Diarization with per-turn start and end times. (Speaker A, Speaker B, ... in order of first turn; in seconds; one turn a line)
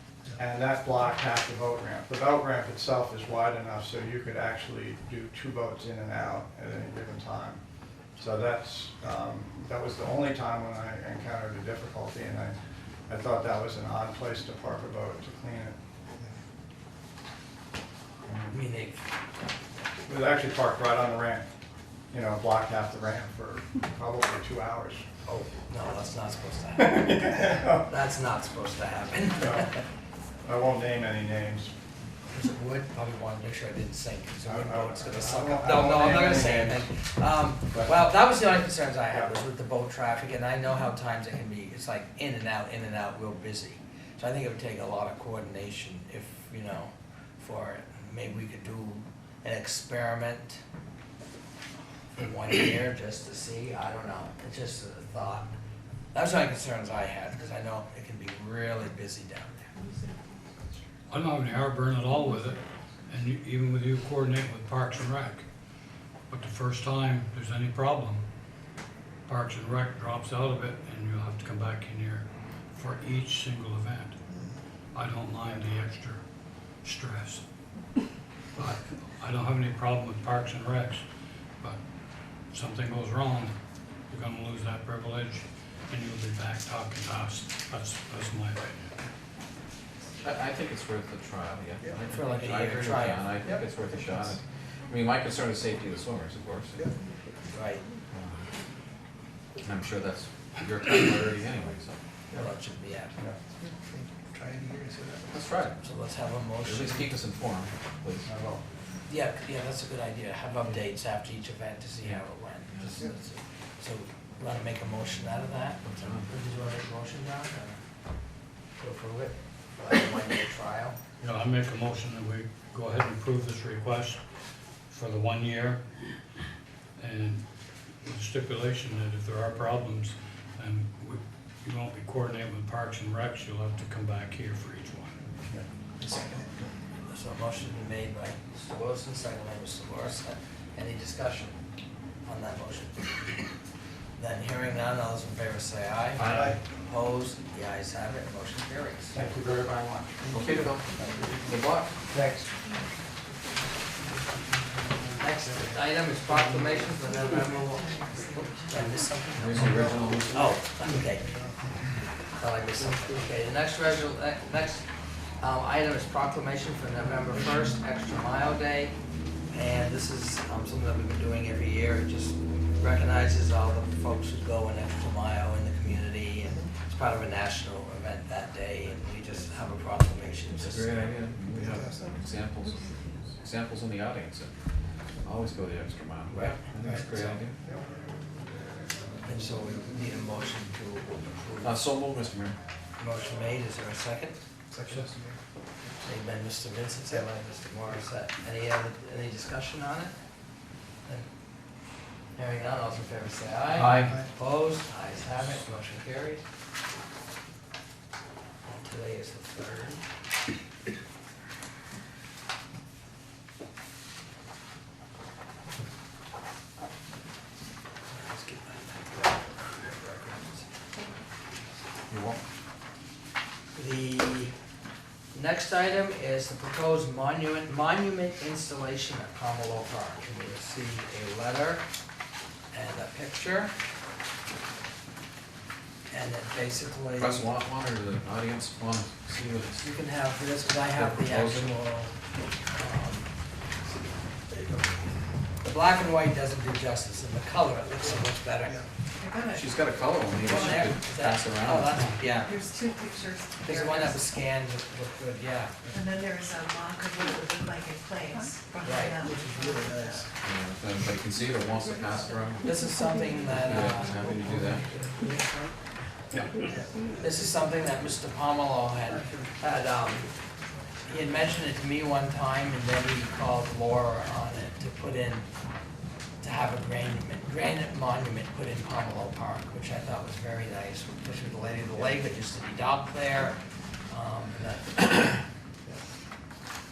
Speaker A: 0.3-7.6
Speaker A: 8.2-12.6
Speaker A: 13.1-15.8
Speaker A: 18.2-18.5
Speaker B: 18.5-19.0
Speaker A: 20.1-21.5
Speaker A: 22.1-25.1
Speaker B: 25.2-29.8
Speaker A: 26.8-27.8
Speaker A: 29.4-29.7
Speaker A: 30.4-31.7
Speaker B: 32.3-50.6
Speaker A: 34.4-36.9
Speaker B: 52.1-55.5
Speaker B: 56.1-59.7
Speaker C: 61.1-65.5
Speaker C: 66.3-68.2
Speaker C: 69.2-74.2
Speaker C: 74.9-76.2
Speaker C: 76.8-77.4
Speaker C: 78.5-81.0
Speaker C: 82.5-83.5
Speaker C: 84.1-88.8
Speaker D: 90.2-96.8
Speaker B: 92.1-93.2
Speaker E: 93.4-94.4
Speaker B: 97.5-97.8
Speaker D: 99.6-102.0
Speaker B: 102.3-103.2
Speaker E: 103.6-105.5
Speaker D: 105.3-105.8
Speaker B: 105.8-107.1
Speaker D: 106.6-108.3
Speaker A: 108.2-108.6
Speaker B: 109.1-117.8
Speaker D: 112.0-113.0
Speaker D: 115.8-116.3
Speaker B: 118.8-121.0
Speaker C: 121.2-124.2
Speaker C: 124.9-125.8
Speaker C: 127.0-127.5
Speaker C: 128.0-135.2
Speaker E: 136.0-136.6
Speaker B: 137.1-141.6
Speaker B: 142.2-143.4
Speaker B: 144.2-149.4
Speaker D: 146.1-146.6
Speaker E: 146.2-146.6
Speaker A: 149.1-150.2
Speaker E: 150.2-151.5
Speaker D: 150.3-151.9
Speaker A: 152.1-152.5
Speaker E: 153.9-156.9
Speaker B: 155.2-161.3
Speaker F: 156.8-158.9
Speaker E: 158.1-162.0
Speaker D: 159.4-160.4
Speaker A: 159.5-160.1
Speaker B: 162.3-168.9
Speaker B: 169.5-181.0
Speaker D: 180.6-184.5
Speaker E: 181.4-182.3
Speaker D: 185.2-187.6
Speaker B: 186.3-187.4
Speaker E: 187.6-188.1
Speaker B: 189.2-191.9
Speaker E: 189.3-190.1
Speaker D: 191.6-192.6
Speaker B: 193.0-194.4
Speaker E: 194.7-195.4
Speaker B: 196.0-200.1
Speaker B: 202.3-206.4
Speaker C: 203.7-204.2
Speaker E: 203.9-204.3
Speaker B: 208.6-210.0
Speaker B: 218.1-220.7
Speaker D: 222.1-222.4
Speaker B: 223.7-224.5
Speaker B: 225.3-231.8
Speaker B: 232.7-233.7
Speaker B: 236.1-237.5
Speaker D: 237.2-239.9
Speaker B: 239.8-242.1
Speaker D: 240.9-241.8
Speaker B: 242.7-243.3
Speaker E: 244.5-245.1
Speaker B: 245.6-248.8
Speaker F: 249.2-249.7
Speaker D: 249.5-252.1
Speaker B: 250.4-252.5
Speaker C: 251.9-252.2
Speaker F: 252.4-254.2
Speaker B: 253.6-255.8
Speaker F: 255.9-260.3
Speaker B: 258.8-259.2
Speaker E: 259.2-260.3
Speaker D: 260.4-262.7
Speaker B: 262.6-264.3
Speaker D: 263.5-264.9
Speaker E: 264.8-265.3
Speaker E: 266.6-267.1
Speaker B: 267.2-270.3
Speaker B: 271.1-275.5
Speaker B: 276.4-285.4